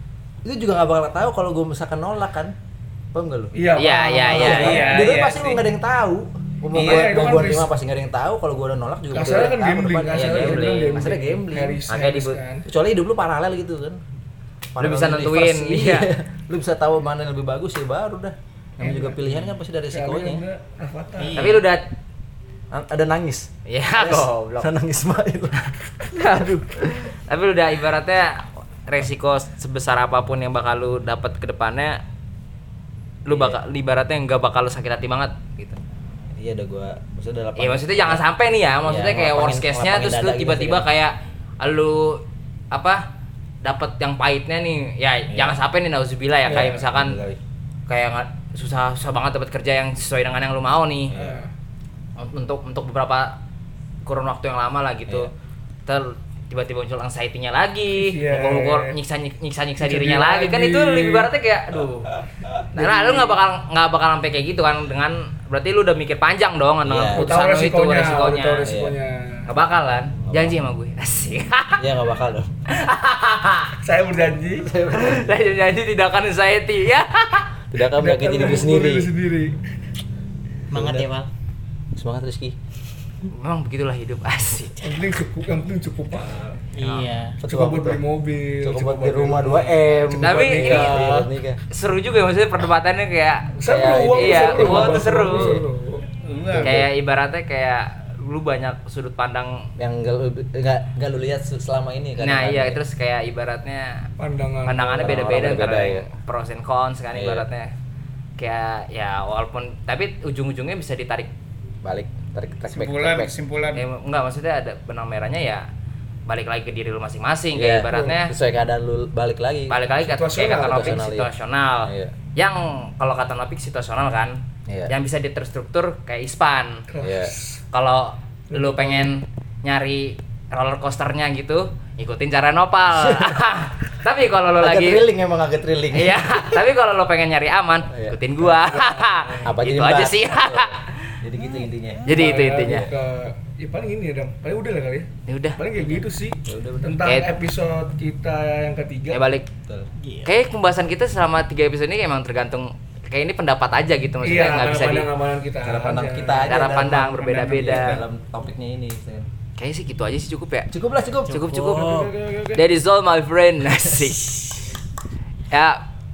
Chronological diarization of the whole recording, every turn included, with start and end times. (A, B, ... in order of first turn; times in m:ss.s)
0:00.4-0:02.5 A
0:03.1-0:03.5 A
0:03.5-0:05.0 B
0:03.8-0:05.2 C
0:04.3-0:11.8 A
0:04.4-0:05.6 D
0:06.7-0:07.4 D
0:06.7-0:07.7 B
0:09.1-0:12.6 B
0:09.2-0:09.5 C
0:10.1-0:11.0 C
0:11.9-0:12.4 C
0:12.6-0:14.0 A
0:14.7-0:20.4 A
0:14.8-0:16.1 C
0:18.8-0:19.4 B
0:19.9-0:21.6 B
0:21.2-0:21.6 E
0:21.3-0:21.8 C
0:22.7-0:25.6 A
0:23.7-0:24.7 C
0:25.7-0:32.0 C
0:33.2-0:35.8 C
0:33.3-0:33.6 A
0:36.4-0:38.2 A
0:37.6-0:42.2 C
0:38.8-0:40.9 A
0:42.7-0:43.0 C
0:43.6-0:47.2 C
0:45.3-0:45.6 A
0:46.4-0:46.7 B
0:46.4-0:47.4 A
0:47.9-0:51.1 C
0:51.1-0:51.4 A
0:51.1-0:51.5 B
0:52.2-0:53.3 C
0:54.0-0:55.3 C
0:55.8-1:02.1 C
0:57.9-0:59.0 B
0:59.8-1:01.3 B
1:02.7-1:03.4 B
1:02.7-1:08.7 C
1:06.8-1:07.3 A
1:07.1-1:09.5 B
1:08.6-1:08.9 A
1:09.5-1:11.8 C
1:10.2-1:10.6 A
1:11.8-1:12.5 A
1:12.7-1:13.7 C
1:13.8-1:14.7 B
1:14.6-1:15.4 A
1:14.9-1:17.5 C
1:17.7-1:19.1 A
1:18.0-1:19.6 B
1:20.7-1:21.3 E
1:20.7-1:21.1 A
1:21.9-1:22.6 A
1:23.3-1:24.9 C
1:24.8-1:26.6 B
1:26.8-1:27.4 E
1:26.8-1:27.1 C
1:27.4-1:28.0 A
1:27.4-1:31.3 B
1:28.6-1:31.6 A
1:30.1-1:31.0 C
1:31.7-1:35.6 C
1:33.6-1:36.0 B
1:33.7-1:35.6 A
1:36.2-1:36.8 D
1:36.4-1:36.9 A
1:36.6-1:39.7 C
1:39.8-1:42.8 A
1:42.2-1:44.1 C
1:44.2-1:45.3 B
1:44.6-1:47.7 C
1:45.0-1:46.1 A
1:47.1-1:47.4 A
1:48.4-1:51.3 C
1:51.8-1:53.3 A
1:52.7-1:53.8 D
1:53.7-1:55.6 C
1:56.3-1:58.3 C
1:57.5-1:59.8 A
1:57.9-1:58.2 B
1:59.7-2:06.8 C
2:00.0-2:01.0 B
2:00.4-2:01.3 A
2:01.8-2:02.1 A
2:04.7-2:04.9 A
2:06.9-2:07.6 B
2:07.0-2:07.3 A
2:07.7-2:15.0 C
2:08.5-2:09.1 B
2:12.9-2:13.6 A
2:14.6-2:16.6 A
2:15.9-2:20.8 C
2:17.9-2:18.8 A
2:18.6-2:19.3 B
2:19.4-2:22.9 A
2:22.0-2:22.9 C
2:22.1-2:29.2 B
2:25.3-2:26.0 C
2:26.4-2:27.0 A
2:29.1-2:29.5 C
2:30.0-2:30.3 E
2:30.2-2:35.1 C
2:34.2-2:36.6 B
2:35.6-2:39.3 A
2:36.4-2:38.0 C
2:39.6-2:40.7 C
2:40.7-2:41.9 A
2:41.3-2:42.5 E
2:41.3-2:44.6 C
2:45.5-2:45.8 C